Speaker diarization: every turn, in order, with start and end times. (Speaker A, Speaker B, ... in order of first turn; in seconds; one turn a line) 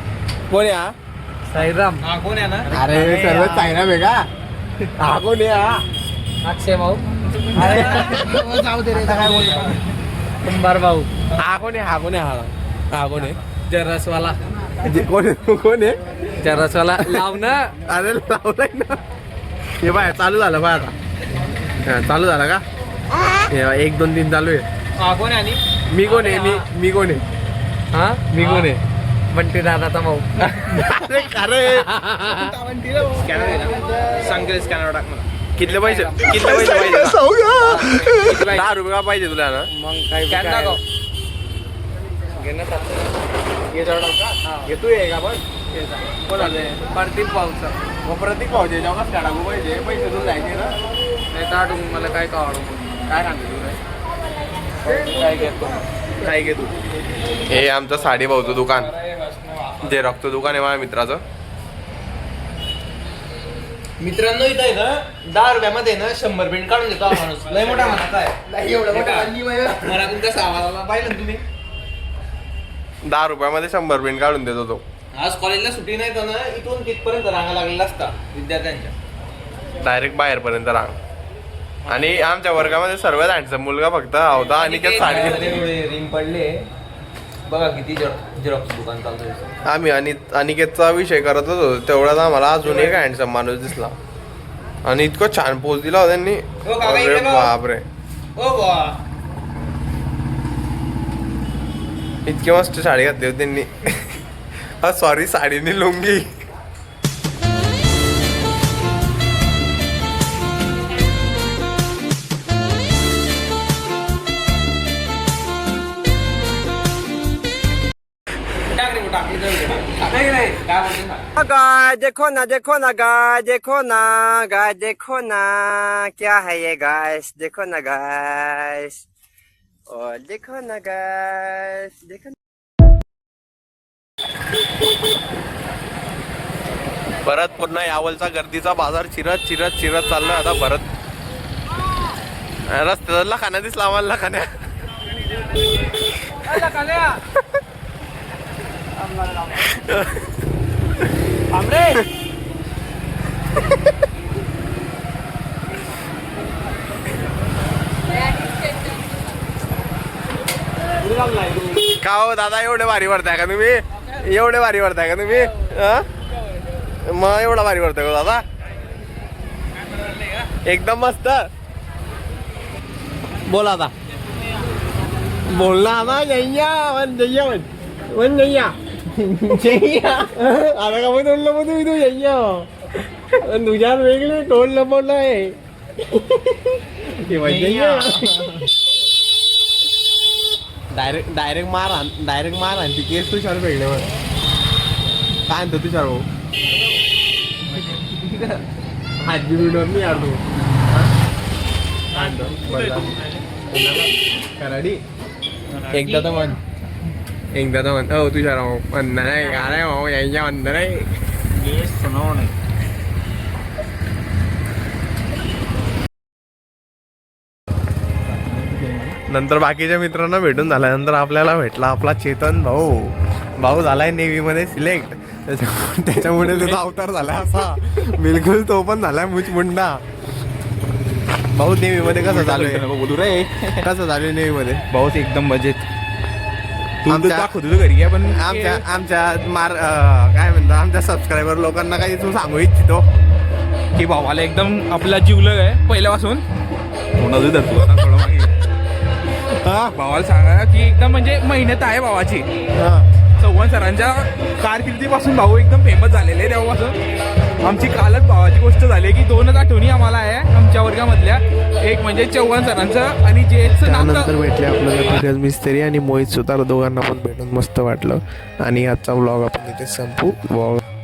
Speaker A: 0.5-0.9
Speaker B: 1.5-2.0
Speaker C: 2.0-3.7
Speaker A: 2.7-4.2
Speaker A: 5.0-5.8
Speaker B: 6.4-7.0
Speaker C: 7.5-9.7
Speaker A: 7.6-9.6
Speaker B: 10.4-11.1
Speaker A: 11.3-13.4
Speaker B: 13.7-14.4
Speaker A: 14.8-16.0
Speaker B: 16.4-17.7
Speaker A: 17.0-17.3
Speaker A: 17.8-19.0
Speaker A: 19.8-20.9
Speaker A: 21.8-22.6
Speaker A: 23.4-24.6
Speaker C: 25.0-26.6
Speaker A: 25.9-27.2
Speaker B: 27.9-28.2
Speaker A: 28.3-28.8
Speaker C: 28.3-28.7
Speaker B: 29.3-30.4
Speaker A: 30.5-31.9
Speaker B: 31.7-32.5
Speaker D: 32.6-33.5
Speaker C: 33.1-35.2
Speaker A: 35.6-39.7
Speaker B: 35.6-36.4
Speaker C: 36.1-38.6
Speaker B: 39.7-40.8
Speaker C: 40.3-40.8
Speaker B: 42.4-43.0
Speaker A: 43.7-45.4
Speaker B: 44.4-44.7
Speaker B: 45.7-47.7
Speaker A: 46.3-46.8
Speaker A: 48.0-50.7
Speaker B: 51.3-52.8
Speaker A: 53.1-53.8
Speaker B: 54.9-55.7
Speaker A: 56.2-56.7
Speaker A: 57.5-58.9
Speaker C: 59.1-59.7
Speaker A: 59.8-61.2
Speaker C: 64.0-71.4
Speaker A: 73.0-74.8
Speaker C: 75.1-78.9
Speaker A: 79.8-81.0
Speaker C: 81.8-82.3
Speaker A: 81.9-85.6
Speaker C: 84.5-86.7
Speaker C: 87.5-89.5
Speaker A: 89.6-94.0
Speaker C: 92.6-93.1
Speaker A: 94.8-97.8
Speaker C: 96.6-97.5
Speaker C: 98.4-99.0
Speaker A: 102.2-104.2
Speaker A: 104.8-106.2
Speaker C: 118.7-121.2
Speaker E: 121.4-129.0
Speaker E: 129.9-132.3
Speaker A: 137.2-140.8
Speaker A: 142.7-144.5
Speaker C: 146.5-147.2
Speaker C: 149.1-149.5
Speaker A: 149.7-150.3
Speaker C: 151.5-152.0
Speaker C: 161.0-161.8
Speaker A: 161.9-166.1
Speaker A: 167.1-168.4
Speaker A: 170.6-171.4
Speaker A: 173.4-173.9
Speaker A: 175.5-185.6
Speaker A: 186.1-188.5
Speaker C: 187.3-188.3
Speaker A: 190.9-194.1
Speaker A: 195.5-196.2
Speaker C: 197.9-198.6
Speaker A: 199.2-200.4
Speaker A: 202.1-205.0
Speaker C: 202.3-203.4
Speaker C: 205.8-206.4
Speaker A: 205.9-206.6
Speaker A: 207.5-211.1
Speaker C: 211.6-212.5
Speaker C: 218.7-219.1
Speaker A: 219.3-230.0
Speaker D: 226.5-226.8
Speaker A: 231.5-232.9
Speaker D: 232.0-233.8
Speaker A: 233.8-234.8
Speaker D: 234.9-235.9
Speaker D: 237.0-238.8
Speaker A: 237.1-237.6
Speaker A: 238.3-243.0
Speaker D: 244.0-246.4
Speaker D: 247.2-248.5
Speaker A: 249.5-249.9
Speaker D: 249.9-252.4
Speaker A: 252.8-253.1
Speaker D: 253.4-257.0
Speaker D: 257.6-264.3
Speaker A: 263.8-270.8